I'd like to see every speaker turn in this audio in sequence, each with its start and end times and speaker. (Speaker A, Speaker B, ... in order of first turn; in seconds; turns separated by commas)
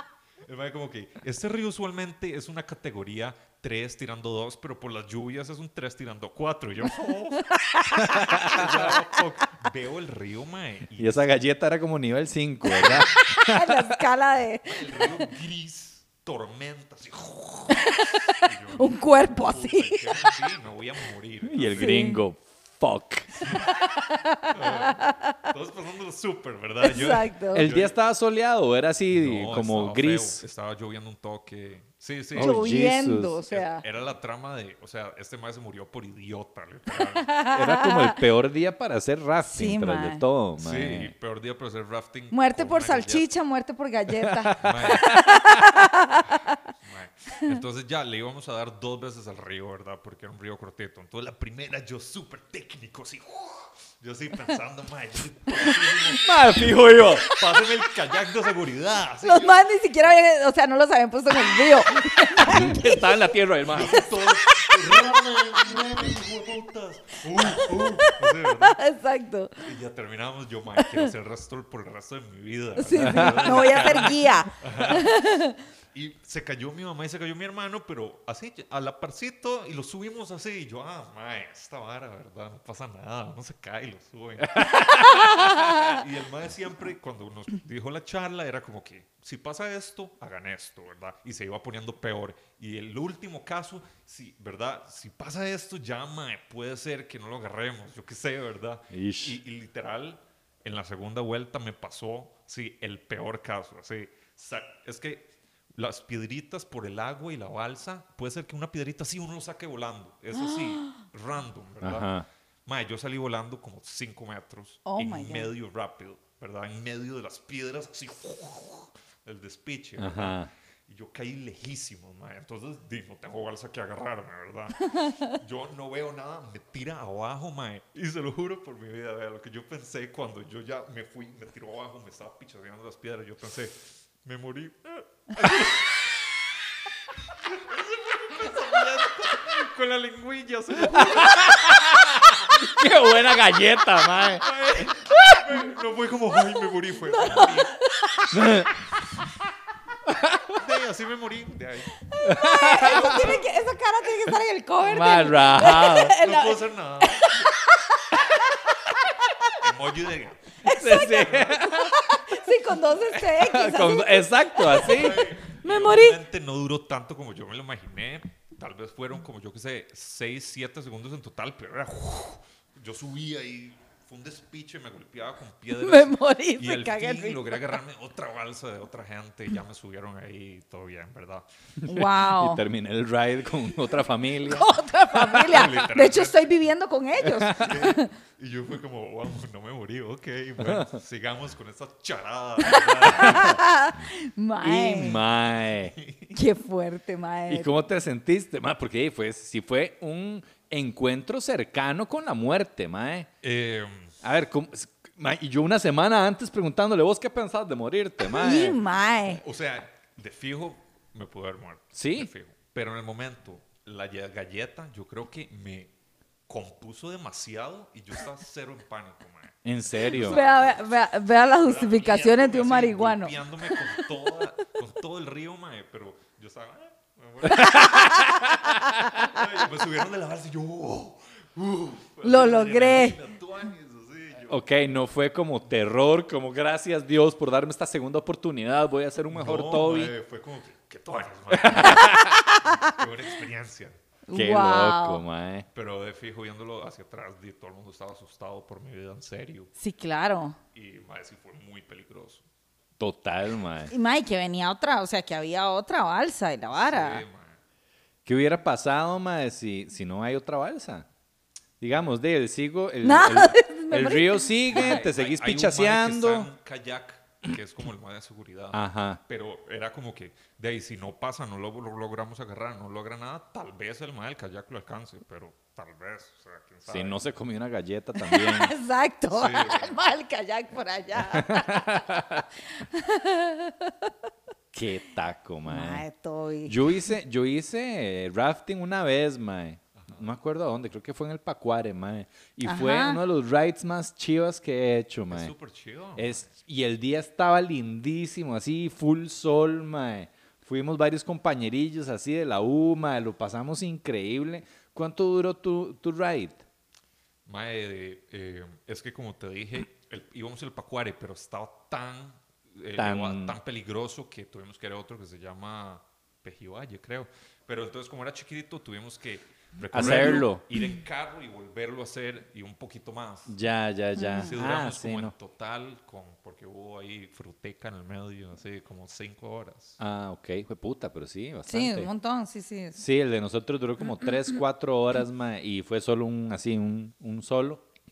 Speaker A: 0.5-7.5, Speaker B: 7.4-8.8, Speaker C: 8.0-8.7, Speaker A: 8.2-11.3, Speaker C: 11.0-14.0, Speaker B: 12.8-15.2, Speaker A: 12.8-13.1, Speaker A: 14.6-22.0, Speaker B: 17.7-20.2, Speaker C: 21.4-23.4, Speaker B: 21.8-22.2, Speaker B: 23.4-25.5, Speaker A: 24.5-27.9, Speaker B: 26.8-27.7, Speaker C: 27.5-30.4, Speaker A: 29.1-32.6, Speaker C: 32.3-33.4, Speaker B: 32.4-33.8, Speaker A: 33.5-37.4, Speaker B: 36.9-38.2, Speaker C: 37.5-41.1, Speaker B: 39.4-40.2, Speaker A: 40.6-43.3, Speaker B: 42.3-46.6, Speaker C: 44.2-45.8, Speaker A: 44.6-45.2, Speaker A: 46.8-59.6, Speaker C: 56.1-57.3, Speaker B: 59.2-65.0, Speaker C: 62.4-64.1, Speaker A: 63.6-68.8, Speaker B: 65.6-65.8, Speaker B: 67.3-69.6, Speaker A: 69.6-75.2, Speaker B: 70.8-71.1, Speaker B: 72.8-75.6, Speaker C: 73.0-73.9, Speaker A: 75.9-112.1, Speaker C: 84.5-85.3, Speaker B: 84.7-85.9, Speaker C: 98.9-99.4, Speaker B: 110.3-111.0, Speaker C: 111.8-112.2, Speaker A: 112.7-136.2, Speaker B: 114.8-115.5, Speaker C: 120.0-120.5, Speaker B: 124.8-125.3, Speaker A: 137.4-142.1, Speaker C: 140.9-144.4, Speaker A: 144.3-147.7, Speaker B: 147.0-148.7, Speaker C: 148.3-148.7, Speaker C: 150.1-150.6, Speaker A: 150.5-152.0, Speaker B: 152.1-159.1, Speaker C: 152.2-153.3, Speaker A: 152.9-153.4, Speaker C: 154.8-156.2, Speaker A: 156.2-157.5, Speaker A: 159.6-161.7, Speaker B: 160.6-166.2, Speaker C: 160.7-161.9, Speaker C: 163.1-165.3, Speaker A: 164.7-181.4, Speaker B: 175.8-177.6, Speaker C: 181.8-184.7, Speaker B: 181.8-182.6, Speaker B: 184.4-188.1, Speaker A: 185.3-186.5, Speaker C: 187.2-187.8, Speaker A: 187.6-193.6, Speaker C: 190.6-190.9, Speaker B: 192.6-195.2, Speaker C: 193.2-193.6, Speaker C: 194.6-195.9, Speaker A: 195.9-196.3, Speaker B: 196.3-197.7, Speaker C: 197.5-203.3, Speaker A: 203.4-204.1, Speaker C: 204.2-208.8, Speaker B: 208.2-209.4, Speaker A: 209.3-215.9, Speaker C: 211.9-212.3, Speaker A: 216.5-220.8, Speaker C: 219.6-220.4, Speaker B: 220.2-224.1, Speaker A: 221.6-228.2, Speaker C: 227.5-228.5, Speaker B: 227.5-229.1, Speaker A: 229.2-234.6, Speaker B: 232.2-233.2, Speaker C: 234.5-240.1, Speaker A: 239.3-243.9, Speaker C: 241.5-242.3, Speaker B: 241.8-242.7, Speaker B: 244.3-245.2, Speaker C: 244.3-245.7, Speaker A: 245.7-249.7, Speaker B: 249.8-250.6, Speaker A: 250.7-252.4, Speaker C: 253.0-253.9, Speaker B: 253.9-257.2, Speaker A: 256.7-257.6, Speaker C: 258.2-261.1, Speaker C: 261.8-266.5, Speaker B: 263.0-265.0, Speaker A: 264.7-277.2, Speaker C: 268.7-269.2, Speaker C: 276.9-278.7, Speaker B: 278.2-282.2, Speaker A: 279.3-280.1, Speaker C: 281.2-282.4, Speaker B: 282.7-284.1, Speaker C: 284.7-286.0, Speaker B: 285.7-287.1, Speaker C: 286.6-295.5, Speaker A: 290.0-290.2, Speaker B: 292.6-293.2, Speaker A: 295.3-296.5, Speaker C: 296.1-306.6, Speaker A: 307.4-323.5, Speaker C: 312.9-313.6, Speaker C: 319.9-320.6, Speaker C: 323.5-325.3, Speaker B: 324.1-324.5, Speaker A: 324.4-330.0, Speaker C: 330.0-332.1, Speaker B: 331.6-333.0, Speaker C: 332.9-337.8